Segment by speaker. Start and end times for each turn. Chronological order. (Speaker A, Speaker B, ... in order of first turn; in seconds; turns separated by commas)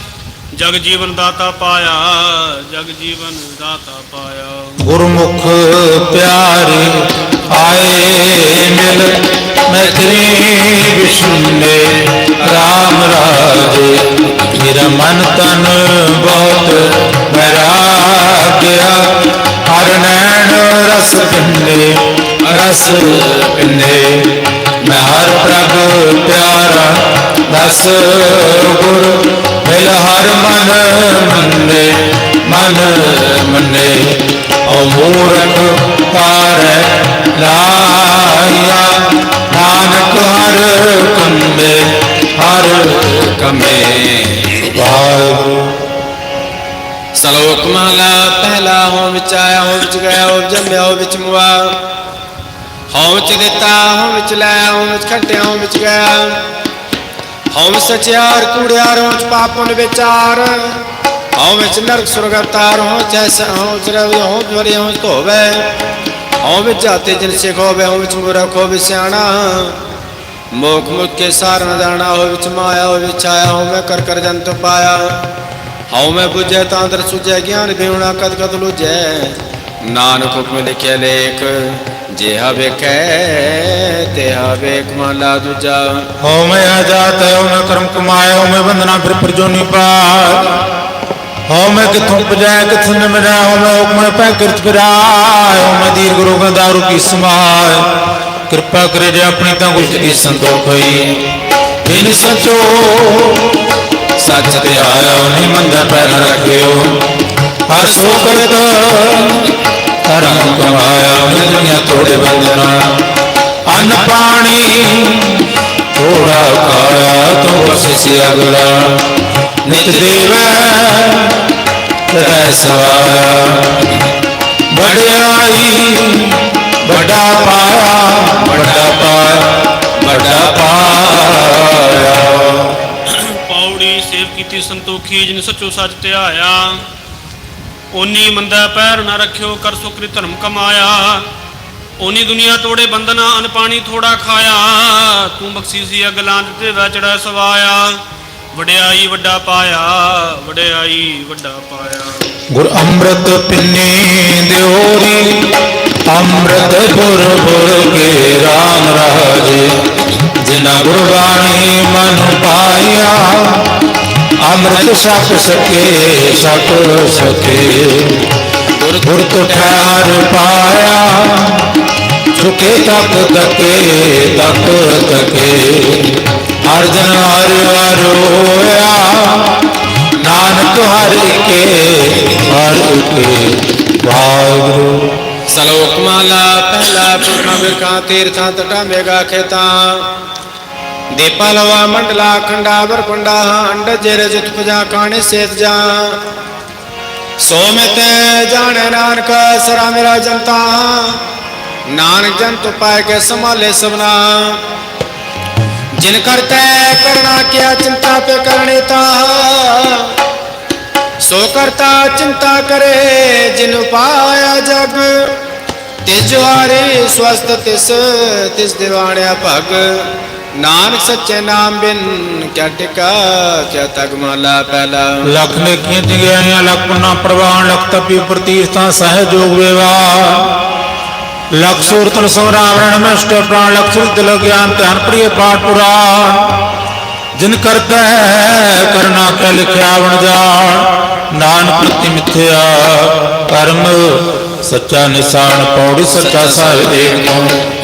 Speaker A: 0.5-4.8, Speaker B: 4.8-43.1, Speaker C: 43.1-44.6, Speaker B: 44.6-45.8, Speaker C: 47.1-51.8, Speaker C: 52.9-56.4, Speaker C: 57.5-60.8, Speaker C: 61.4-65.8, Speaker C: 66.4-69.8, Speaker C: 70.5-75.2, Speaker C: 75.9-86.1, Speaker B: 86.2-90.6, Speaker B: 91.5-97.9, Speaker B: 98.5-101.2, Speaker B: 101.8-103.5, Speaker C: 104.2-104.5, Speaker B: 104.4-107.0, Speaker B: 107.7-109.5, Speaker B: 110.0-112.9, Speaker B: 113.7-119.0, Speaker B: 119.6-121.4, Speaker B: 122.1-123.9, Speaker B: 124.7-132.8, Speaker C: 130.0-130.8, Speaker A: 133.1-136.8, Speaker A: 137.9-141.3, Speaker A: 142.0-148.0, Speaker A: 148.5-152.2, Speaker B: 152.5-155.5, Speaker B: 156.1-159.7, Speaker B: 160.4-163.7, Speaker B: 164.4-168.2, Speaker C: 168.8-169.8, Speaker B: 169.0-171.7, Speaker B: 172.3-179.6, Speaker B: 180.2-185.0, Speaker C: 185.5-190.1, Speaker C: 191.1-196.2, Speaker C: 197.4-201.2, Speaker C: 201.9-204.6, Speaker C: 205.9-210.1, Speaker C: 211.2-215.3, Speaker C: 216.1-225.3, Speaker B: 225.3-230.6, Speaker B: 231.6-236.6, Speaker B: 237.4-247.6